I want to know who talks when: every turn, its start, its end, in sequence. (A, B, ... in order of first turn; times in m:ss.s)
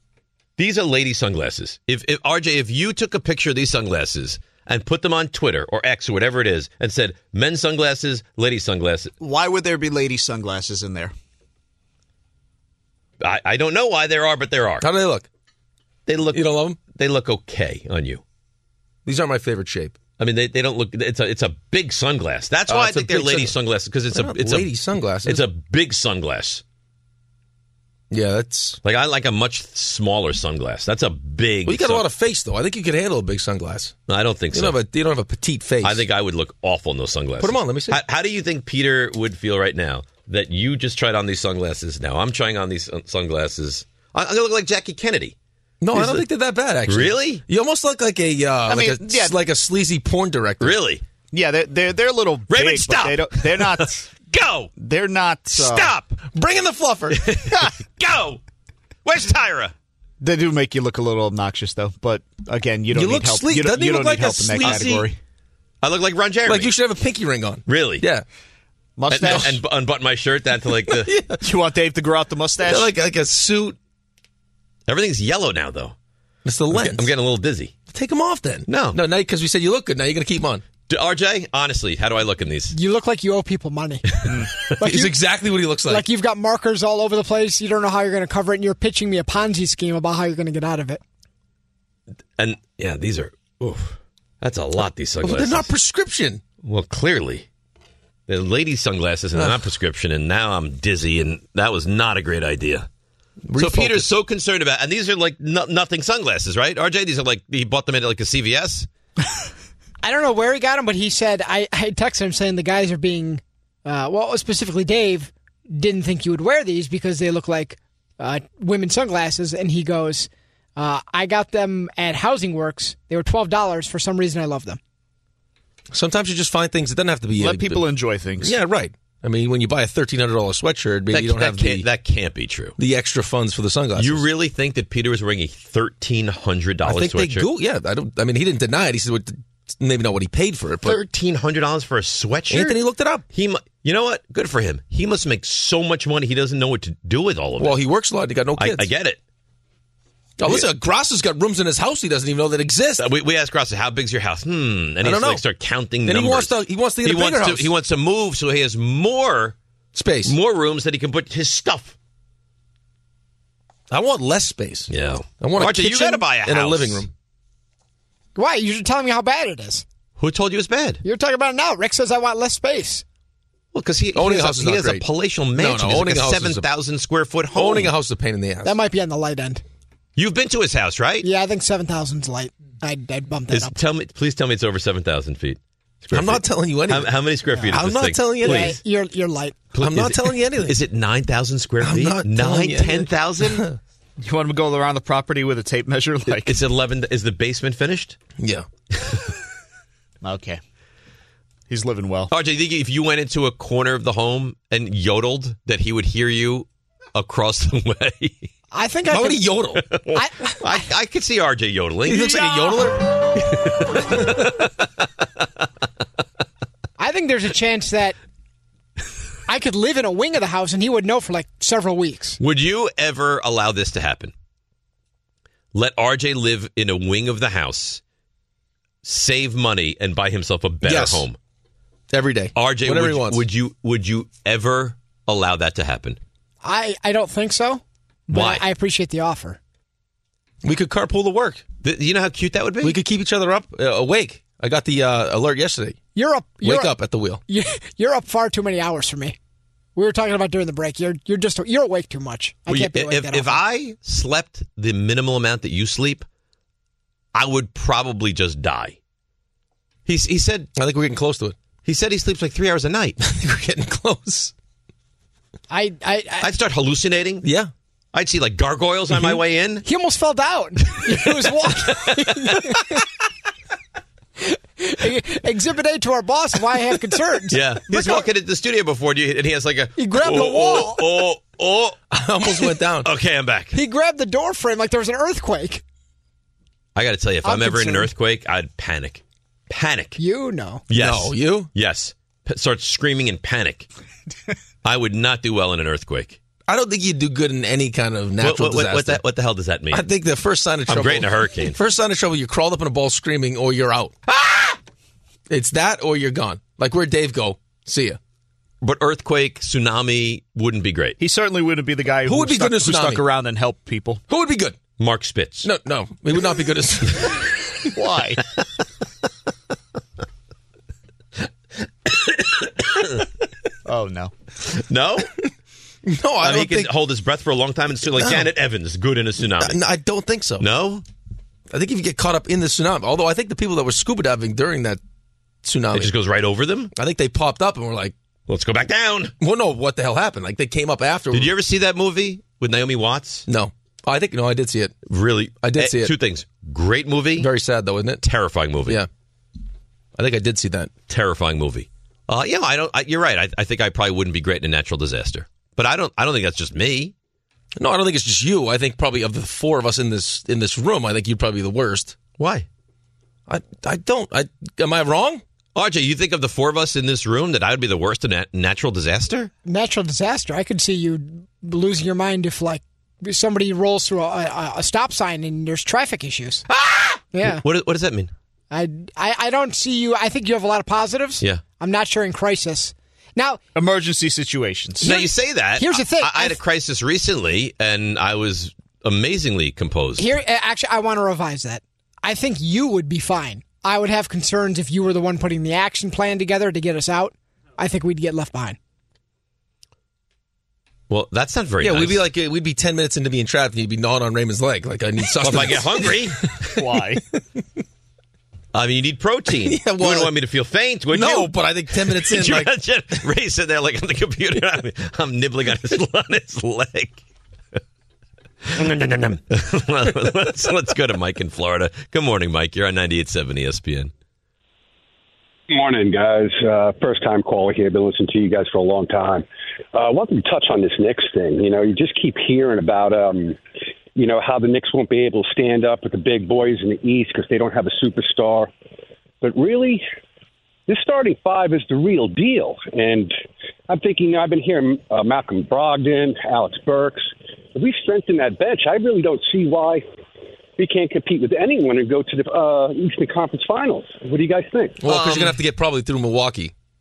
0:00.6-0:09.1 A
0:09.2-0:11.1 B
0:13.2-0:14.9 A
0:14.8-0:15.3 C
0:16.1-0:18.2 A
0:16.3-0:16.8 C
0:19.1-0:20.0 C
0:20.2-0:24.7 A
0:22.7-0:23.6 C
0:24.1-0:25.4 C
0:25.2-0:26.6 A
0:28.1-0:28.8 C
0:28.8-0:32.1 A
0:31.6-0:33.9 C
0:34.1-0:34.8 A
0:34.5-0:36.0 C
0:35.8-0:45.4 A
0:37.4-0:38.0 C
0:45.8-0:50.8 C
0:45.9-0:46.3 A
0:46.9-0:47.4 A
0:48.7-0:49.4 B
0:50.6-0:51.0 A
0:51.3-0:54.0 B
0:52.5-0:54.7 A
0:54.8-0:56.0 B
0:55.5-0:56.2 A
0:56.3-0:57.2 C
0:57.1-0:58.4 A
0:59.0-0:59.7 A
1:00.2-1:05.2 B
1:02.9-1:05.1 C
1:05.8-1:06.7 A
1:06.5-1:08.2 C
1:07.7-1:08.0 A
1:09.0-1:09.6 B
1:09.1-1:11.1 A
1:09.2-1:09.5 C
1:10.9-1:11.4 C
1:11.4-1:12.9 B
1:12.7-1:13.8 C
1:14.9-1:16.0 A
1:16.4-1:17.1 C
1:16.7-1:17.8 A
1:17.9-1:20.6 C
1:18.7-1:19.0 A
1:20.9-1:22.8 A
1:22.7-1:24.2 D
1:24.1-1:24.8 A
1:24.8-1:25.2 D
1:24.8-1:26.0 C
1:25.8-1:31.0 D
1:32.4-1:35.7 A
1:35.2-1:36.4 C
1:36.6-1:37.5 A
1:38.3-1:42.9 A
1:43.5-1:44.1 C
1:43.6-1:48.9 A
1:50.0-2:04.8 D
2:05.9-2:07.8 C
2:07.4-2:08.6 B
2:08.4-2:11.9 C
2:11.1-2:12.8 A
2:12.8-2:14.3 C
2:14.0-2:17.5 A
2:16.8-2:21.0 C
2:20.8-2:27.8 A
2:22.5-2:23.2 C
2:27.6-2:28.9 C
2:28.6-2:29.2 A
2:30.4-2:33.1 C
2:30.4-2:30.7 A
2:33.0-2:39.6 A
2:35.0-2:35.4 C
2:36.0-2:37.7 C
2:39.9-2:40.4 C
2:40.2-2:42.0 A
2:43.9-2:47.1 C
2:44.9-2:47.0 A
2:48.4-2:49.8 D
2:50.2-2:51.0 A
2:51.0-2:53.0 D
2:53.7-2:57.9 A
2:54.1-2:56.7 C
2:57.6-2:58.8 C
2:58.6-2:59.6 D
3:00.2-3:01.2 A
3:01.2-3:03.8 D
3:03.5-3:08.8 A
3:06.1-3:08.8 C
3:08.4-3:09.7 D
3:09.8-3:13.7 A
3:09.8-3:10.8 C
3:11.8-3:13.8 C
3:14.2-3:16.5 B
3:16.4-3:18.2 A
3:18.4-3:18.7 C
3:20.2-3:20.6 B
3:21.7-3:22.3 B
3:22.3-3:28.5 A
3:28.7-3:29.6 D
3:29.1-3:30.0 C
3:29.8-3:34.7 A
3:30.1-3:30.8 D
3:32.0-3:33.0 C
3:37.0-3:38.2 D
3:39.5-3:42.4 D
3:42.4-3:44.3 A
3:45.7-3:48.0 A
3:49.0-3:51.4 A
3:50.8-3:51.3 C
3:52.1-3:53.4 C
3:52.6-3:56.2 A
3:56.6-3:59.6 D
3:58.3-3:58.6 A
4:00.6-4:01.6 C
4:01.8-4:03.0 A
4:02.8-4:06.0 C
4:06.2-4:07.0 D
4:06.6-4:07.4 C
4:07.5-4:09.4 D
4:10.0-4:13.6 D
4:12.7-4:16.2 A
4:17.3-4:19.0 A
4:20.1-4:20.7 A
4:20.8-4:21.6 C
4:21.8-4:23.2 A
4:23.2-4:24.5 C
4:25.7-4:26.5 D
4:26.4-4:27.5 A
4:27.4-4:27.7 C
4:28.1-4:29.8 A
4:29.1-4:29.4 C
4:29.8-4:32.9 D
4:31.1-4:32.2 A
4:34.8-4:38.3 D
4:37.5-4:43.8 A
4:40.0-4:41.3 D
4:42.1-4:43.1 C
4:43.7-4:45.8 D
4:47.0-4:50.2 A
4:47.4-4:48.1 D
4:50.2-4:50.8 D
4:50.9-4:53.9 A
4:50.9-4:51.7 C
4:54.8-4:56.4 A
4:56.7-4:59.2 C
4:58.4-5:00.0 A
4:59.9-5:04.2 C
5:00.9-5:01.8 A
5:04.3-5:04.8 A
5:05.5-5:08.2 C
5:08.8-5:11.2 A
5:11.2-5:14.2 B
5:12.2-5:13.3 C
5:14.3-5:14.8 C
5:15.0-5:15.7 A
5:15.6-5:17.4 C
5:18.0-5:18.4 B
5:22.1-5:23.2 A
5:23.9-5:24.3 B
5:24.6-5:25.3 A
5:26.1-5:26.9 C
5:26.4-5:29.8 A
5:28.2-5:28.5 C
5:29.6-5:30.7 C
5:30.6-5:31.0 A
5:31.7-5:35.0 C
5:35.6-5:36.1 C
5:35.9-5:36.9 A
5:36.9-5:38.1 C
5:38.5-5:39.3 A
5:39.4-5:41.5 C
5:41.3-5:43.5 A
5:43.5-5:45.0 C
5:45.1-5:47.5 A
5:45.6-5:46.1 C
5:47.4-5:48.2 C
5:48.2-5:49.0 A
5:50.2-5:50.9 C
5:51.1-5:57.1 A
5:57.8-6:02.2 C
6:02.4-6:02.7 A
6:03.5-6:05.4 C
6:05.8-6:09.5 A
6:09.6-6:16.6 D
6:16.7-6:18.3 A
6:17.3-6:17.6 D
6:18.7-6:23.6 D
6:23.8-6:25.2 B
6:25.0-6:26.6 D
6:25.0-6:30.3 A
6:30.2-6:38.8 D
6:41.1-6:42.2 A
6:41.8-6:46.3 C
6:45.4-6:46.4 A
6:46.8-6:47.2 B
6:48.7-6:57.2 A
6:49.6-6:50.3 C
6:51.1-6:52.7 C
6:58.7-7:04.1 A
7:05.7-7:13.6 E
7:14.2-7:18.7 E
7:19.4-7:20.0 E
7:20.9-7:23.3 E
7:23.9-7:30.0 E
7:30.8-7:35.0 E
7:35.0-7:36.7 C
7:35.1-7:35.6 A